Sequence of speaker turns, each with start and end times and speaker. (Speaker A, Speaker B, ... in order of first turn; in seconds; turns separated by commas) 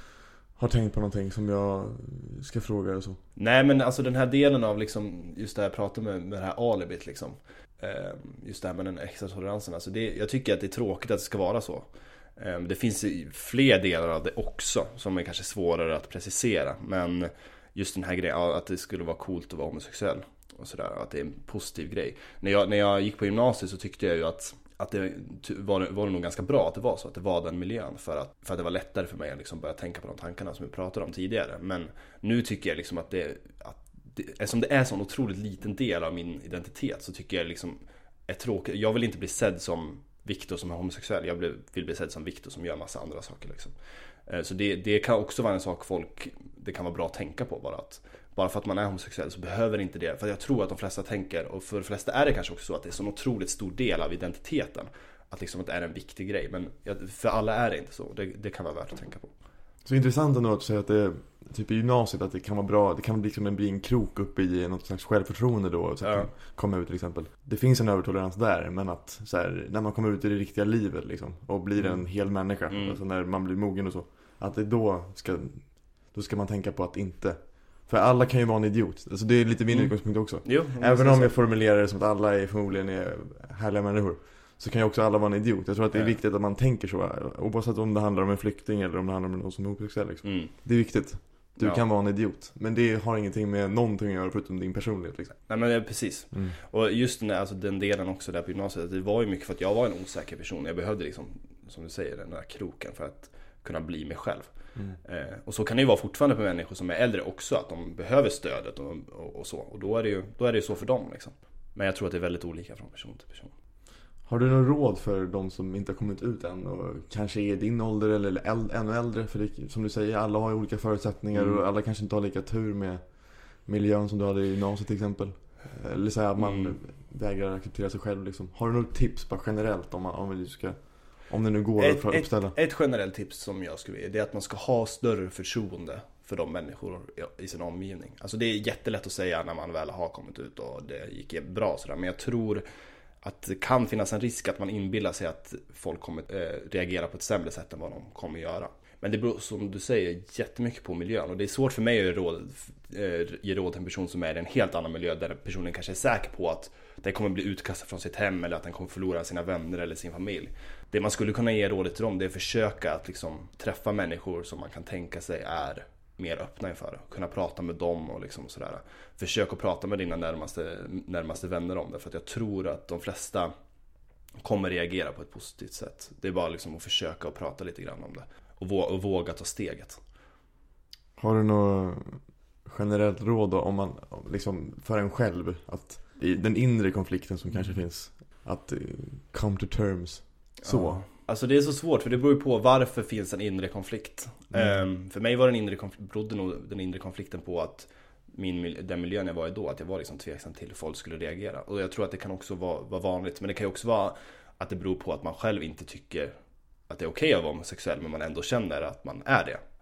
Speaker A: 0.6-3.2, Speaker B: 3.4-43.7, Speaker B: 44.2-59.3, Speaker A: 59.8-95.5, Speaker B: 66.0-66.3, Speaker B: 71.8-72.1, Speaker B: 72.7-73.0, Speaker B: 79.7-81.3, Speaker B: 85.9-86.2, Speaker B: 90.2-90.5, Speaker B: 91.5-91.8, Speaker B: 95.5-113.5, Speaker A: 96.3-96.6, Speaker A: 114.2-132.6, Speaker B: 121.3-121.6, Speaker B: 126.4-126.8, Speaker B: 131.8-142.6, Speaker B: 143.2-173.5, Speaker B: 174.4-180.0, Speaker A: 181.2-191.0, Speaker B: 190.6-206.3, Speaker A: 194.5-194.8, Speaker B: 206.9-209.6